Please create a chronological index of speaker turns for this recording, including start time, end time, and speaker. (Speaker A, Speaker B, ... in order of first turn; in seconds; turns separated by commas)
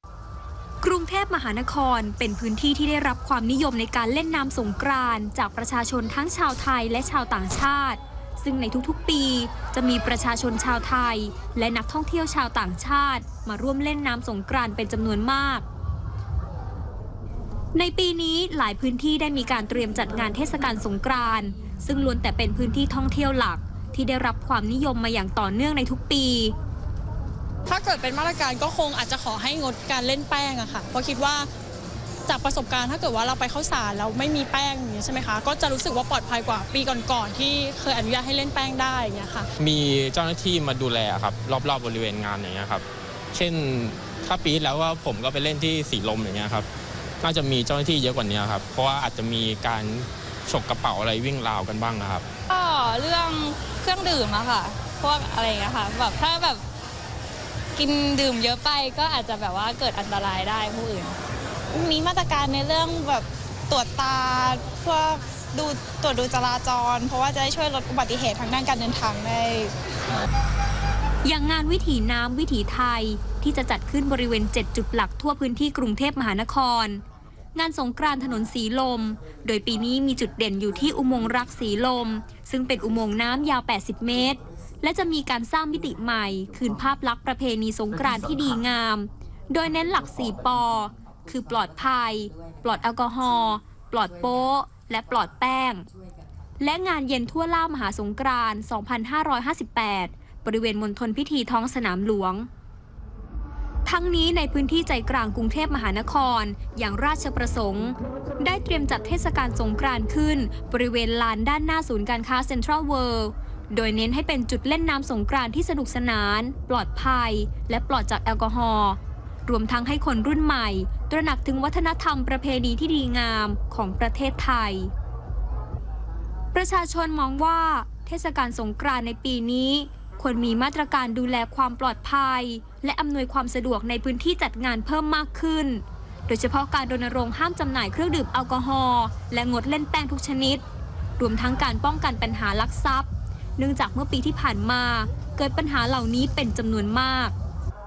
Speaker A: 0.8-15.7, Speaker A: 17.7-26.5, Speaker B: 27.7-31.5, Speaker B: 32.3-39.5, Speaker C: 39.6-46.7, Speaker C: 47.2-52.2, Speaker D: 52.5-56.6, Speaker D: 57.8-61.2, Speaker E: 61.7-69.7, Speaker A: 71.2-77.0, Speaker A: 77.5-95.9, Speaker A: 96.6-102.5, Speaker A: 103.8-124.9, Speaker A: 126.5-140.6, Speaker A: 141.2-147.3